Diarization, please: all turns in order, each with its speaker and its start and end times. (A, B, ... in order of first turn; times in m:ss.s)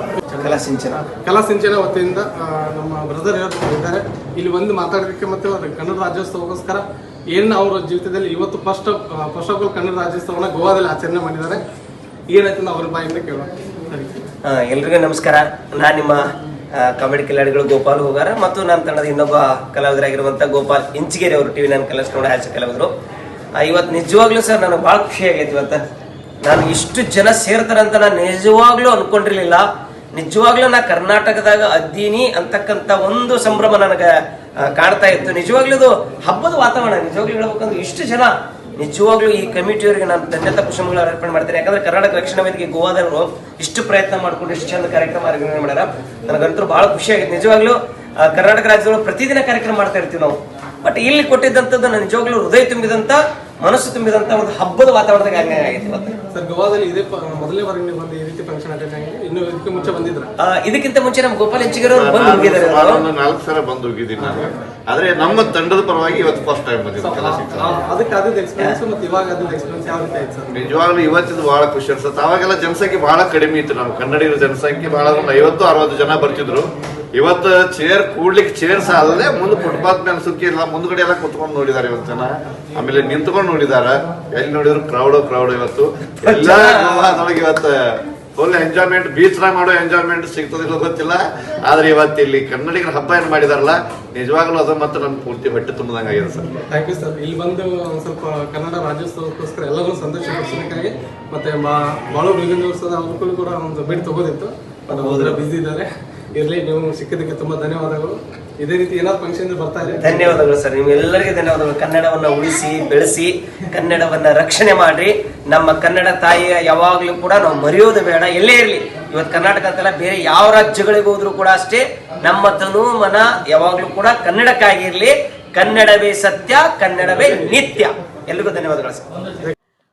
0:00.3-0:01.0 A
0:01.0-0:11.6 B
0:12.3-0:14.2 B
0:14.4-0:16.2 A
0:16.7-0:22.9 A
0:23.6-0:25.8 A
0:26.4-0:34.1 A
0:34.7-0:56.2 A
0:56.3-1:00.3 B
1:00.4-1:03.0 A
1:01.9-1:07.7 C
1:07.0-1:10.6 B
1:10.5-1:36.5 C
1:26.2-1:27.3 A
1:36.6-1:50.4 B
1:44.9-1:45.4 A
1:50.0-2:09.1 A